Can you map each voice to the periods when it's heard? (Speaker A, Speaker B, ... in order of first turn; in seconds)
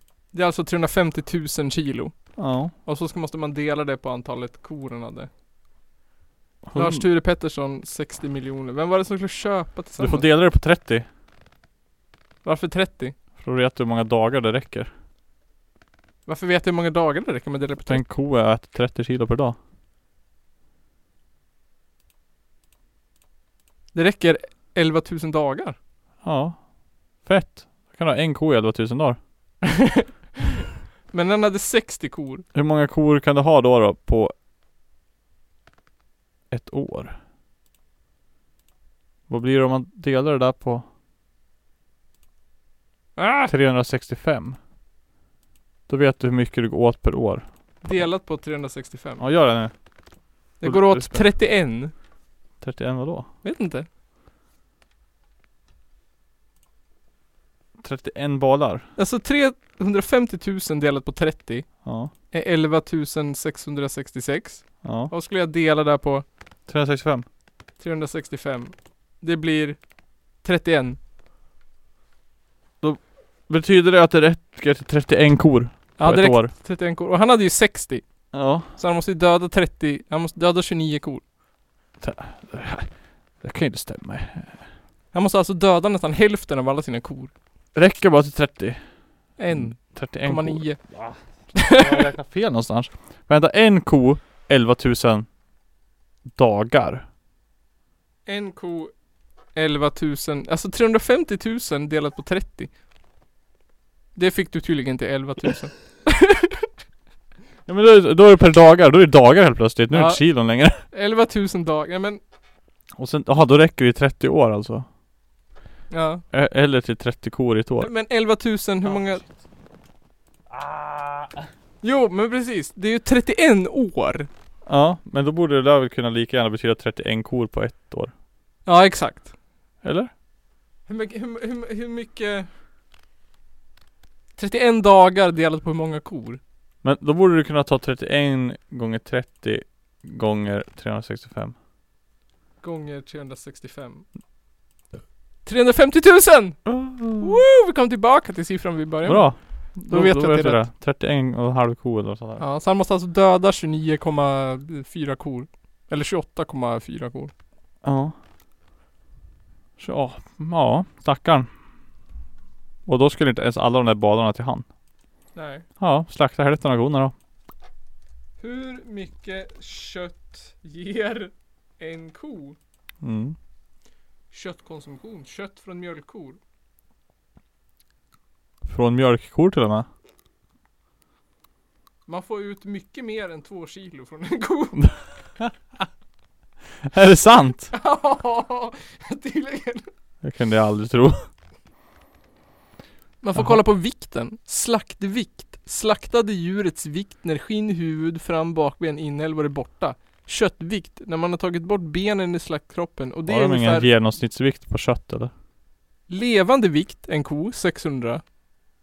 Speaker A: 0.3-5.3, 6.7-10.3, 12.4-13.1, 16.2-18.0, 23.9-25.8, 31.1-32.4, 43.2-43.5, 47.8-49.2, 50.6-51.9, 53.4-53.9, 59.0-66.2, 67.8-69.8, 70.4-71.0, 76.0-81.2, 85.1-87.3, 89.4-90.8, 91.5-92.0, 98.2-98.9, 99.5-102.7, 104.1-106.7, 109.9-112.2, 115.9-116.2, 117.8-119.2, 121.8-124.3, 128.7-129.3, 130.9-132.5, 134.4-136.4, 142.6-144.1, 145.4-150.7, 152.4-157.3, 165.3-165.7, 168.4-172.6, 174.3-176.4, 182.1-185.0, 187.7-189.9, 193.2-203.9, 206.1-208.3
Speaker B: 2.4-2.7, 6.7-7.0, 10.0-11.1, 13.4-14.9, 17.9-19.6, 26.2-29.2, 32.5-34.3, 36.5-37.1, 39.3-40.8, 43.5-44.6, 45.9-48.0, 49.2-49.9, 50.6-51.3, 52.6-53.3, 57.8-58.9, 61.8-62.1, 64.8-65.1, 66.7-67.2, 72.8-76.5, 78.3-78.7, 82.0-84.7, 87.7-95.3, 96.3-97.0, 107.7-110.8, 113.0-114.9, 116.3-117.9, 120.5-121.4, 124.7-128.1, 129.8-130.1, 136.8-141.5, 146.7-147.3, 149.0-152.4, 157.8-158.1, 159.8-161.5, 162.8-164.6, 165.8-167.1, 173.0-173.3, 178.6-179.9, 186.8-187.7, 190.2-191.2, 193.3-193.6, 203.3-205.3